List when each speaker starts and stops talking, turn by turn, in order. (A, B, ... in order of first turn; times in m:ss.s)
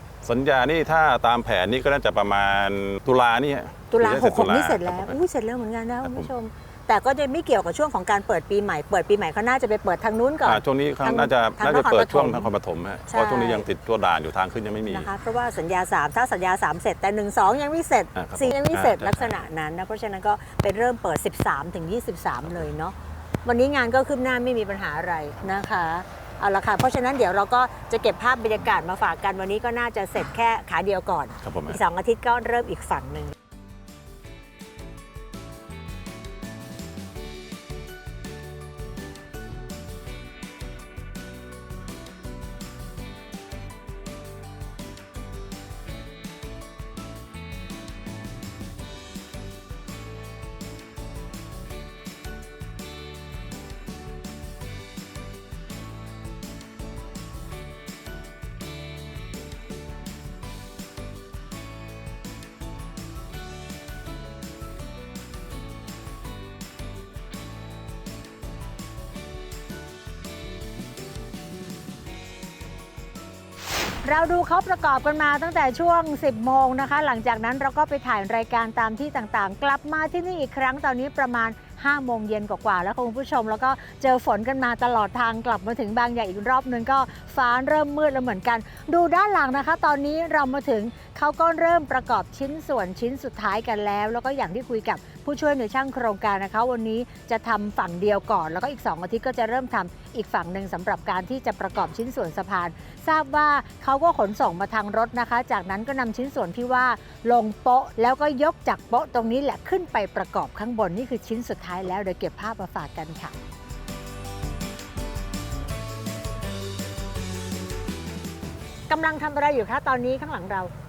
0:00.2-0:05.2 A
0:03.9-0:12.5 B
0:06.0-0:06.3 A
0:10.4-0:15.1 A
0:13.1-0:13.7 B
0:14.9-0:33.3 B
0:18.2-0:19.4 A
0:31.4-0:31.8 A
1:14.0-1:53.4 B
1:58.9-2:00.7 B